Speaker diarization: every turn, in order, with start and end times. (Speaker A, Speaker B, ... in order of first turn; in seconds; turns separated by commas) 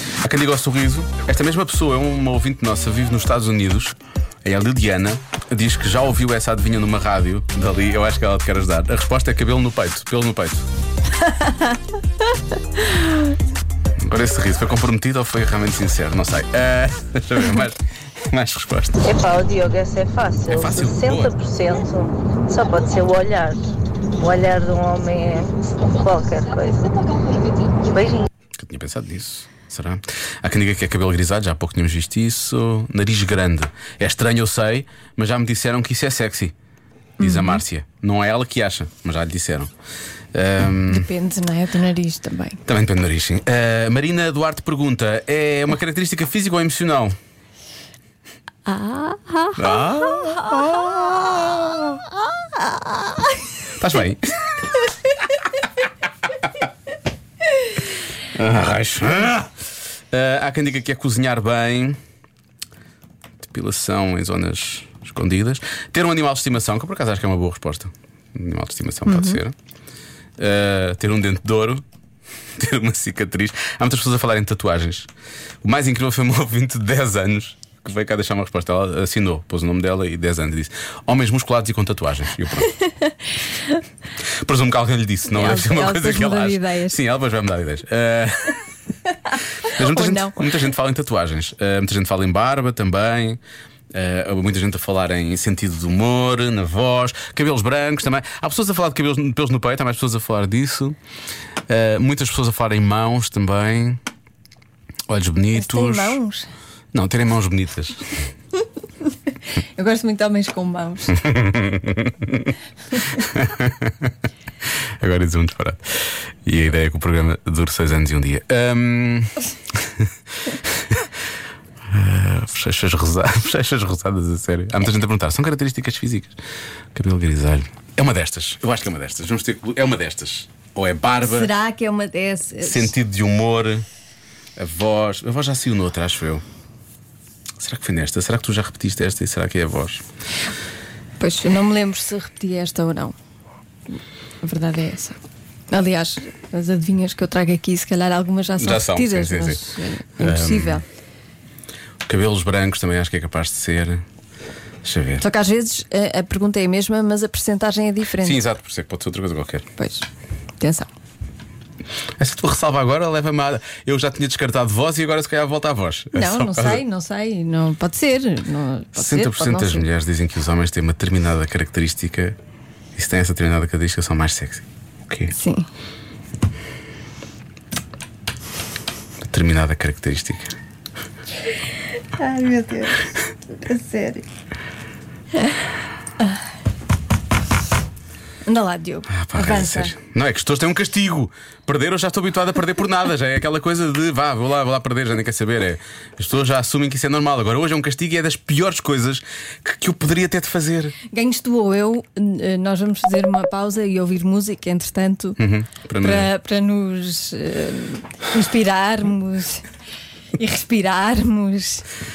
Speaker A: 0.2-10.7, Speaker B: 11.2-11.8, Speaker B: 12.8-13.2, Speaker A: 14.0-19.1, Speaker C: 19.0-23.6, Speaker A: 20.5-21.5, Speaker C: 24.1-26.9, Speaker C: 27.8-28.3, Speaker A: 28.6-36.5, Speaker A: 37.2-39.7, Speaker B: 37.2-37.6, Speaker A: 40.3-41.1, Speaker B: 40.9-42.6, Speaker A: 42.7-47.2, Speaker B: 48.7-51.5, Speaker A: 49.5-52.0, Speaker B: 52.6-53.3, Speaker A: 53.8-54.6, Speaker A: 58.4-59.5, Speaker A: 60.1-62.0, Speaker A: 63.4-69.5, Speaker B: 69.1-69.4, Speaker A: 70.4-71.8, Speaker A: 72.6-75.1, Speaker A: 75.6-82.7, Speaker B: 82.8-83.8, Speaker A: 84.4-88.6, Speaker B: 85.3-87.0, Speaker A: 89.6-93.4, Speaker B: 89.7-90.4, Speaker A: 93.9-101.0, Speaker A: 101.7-104.0, Speaker A: 105.1-106.2, Speaker B: 105.5-106.5, Speaker A: 106.9-108.0, Speaker B: 109.8-111.2, Speaker A: 111.1-112.5, Speaker A: 113.3-114.1, Speaker A: 115.0-120.1, Speaker A: 120.7-121.1, Speaker A: 121.9-126.4, Speaker A: 126.9-131.5, Speaker B: 131.2-132.9, Speaker A: 132.6-133.8, Speaker A: 134.6-136.4, Speaker A: 137.6-140.1, Speaker B: 141.2-143.2, Speaker B: 144.4-145.2, Speaker B: 145.7-150.8, Speaker A: 148.6-149.6, Speaker A: 150.2-150.8, Speaker A: 152.1-154.0, Speaker A: 154.8-155.2, Speaker B: 155.2-158.4, Speaker A: 158.2-159.7, Speaker B: 159.8-160.1, Speaker B: 160.6-160.9, Speaker A: 162.2-166.8, Speaker B: 166.1-169.9, Speaker A: 168.9-172.4, Speaker A: 172.9-175.3, Speaker B: 175.3-175.7, Speaker A: 179.2-180.6, Speaker B: 182.2-183.1, Speaker B: 183.6-184.2, Speaker B: 188.4-189.9, Speaker A: 189.1-200.9, Speaker B: 201.1-205.4, Speaker A: 205.4-206.3, Speaker B: 206.0-209.6, Speaker B: 210.4-211.8